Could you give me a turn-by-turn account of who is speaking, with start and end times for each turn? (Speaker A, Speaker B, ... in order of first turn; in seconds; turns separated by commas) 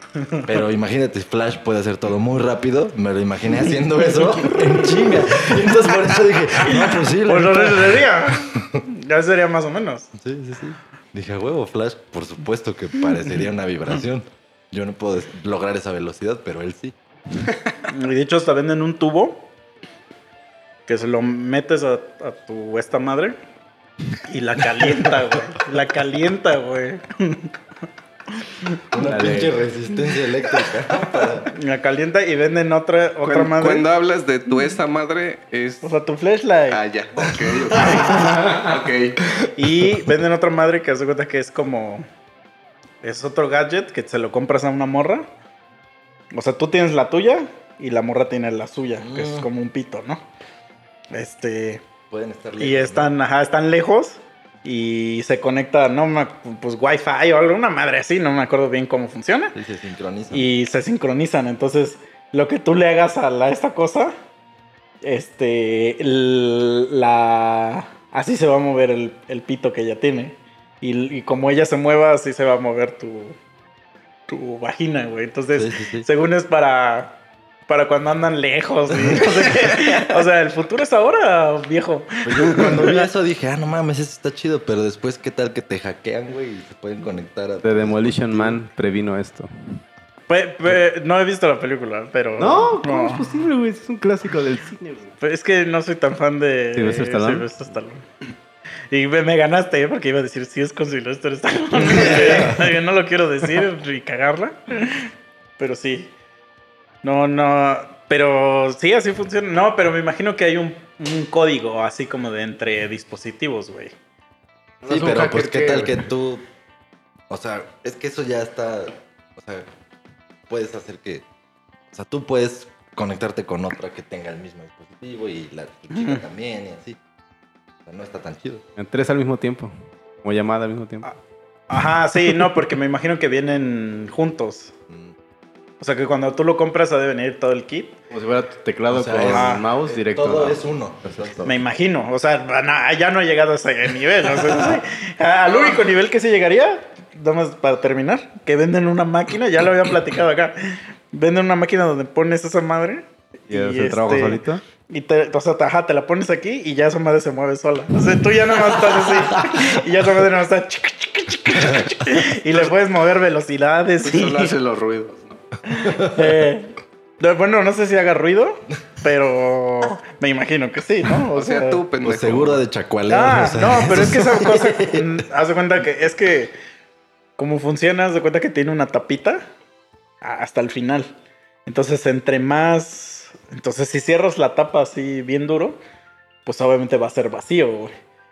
Speaker A: 0.2-0.5, Speaker B: 0.5-8.8, Speaker A: 6.7-10.1, Speaker B: 10.2-17.0, Speaker A: 17.9-19.5, Speaker A: 20.9-23.4, Speaker A: 24.3-27.5, Speaker A: 28.4-28.7, Speaker B: 28.9-31.6, Speaker C: 29.0-29.6, Speaker A: 31.4-33.9, Speaker D: 33.2-36.0, Speaker A: 35.8-36.8, Speaker D: 36.7-39.2, Speaker B: 37.7-38.0, Speaker A: 37.8-38.4, Speaker A: 39.5-42.1, Speaker A: 43.0-45.3, Speaker A: 46.3-50.2, Speaker B: 49.0-49.5, Speaker A: 51.1-51.8, Speaker B: 52.1-53.1, Speaker A: 52.6-59.5, Speaker B: 59.5-60.5, Speaker A: 60.3-64.1, Speaker A: 65.0-73.4, Speaker A: 74.3-77.2, Speaker B: 75.5-76.1, Speaker A: 77.7-83.1, Speaker B: 79.0-79.4, Speaker B: 82.2-88.6, Speaker C: 87.6-89.8, Speaker A: 90.3-93.3, Speaker C: 92.4-95.1, Speaker A: 95.2-98.0, Speaker C: 96.8-97.5, Speaker A: 98.9-106.1, Speaker B: 101.8-102.6, Speaker A: 107.0-114.0, Speaker C: 114.8-116.0, Speaker B: 114.8-116.5, Speaker B: 117.3-119.7, Speaker B: 120.5-121.2, Speaker B: 121.9-127.0, Speaker A: 125.9-126.2, Speaker B: 127.9-128.6, Speaker C: 128.8-131.1, Speaker A: 131.7-134.7, Speaker B: 134.9-135.2, Speaker A: 135.8-138.0, Speaker C: 138.1-140.6, Speaker B: 138.9-141.6, Speaker A: 139.2-139.7, Speaker A: 141.4-164.5, Speaker D: 145.5-145.8, Speaker C: 153.5-154.6, Speaker B: 158.9-159.7, Speaker B: 161.5-161.9, Speaker D: 164.0-165.4, Speaker A: 165.7-171.8, Speaker B: 165.8-166.4, Speaker D: 171.3-172.6, Speaker B: 172.0-175.2, Speaker A: 173.1-176.5, Speaker A: 177.4-179.5, Speaker A: 180.2-181.1, Speaker A: 181.7-185.8, Speaker A: 186.5-187.9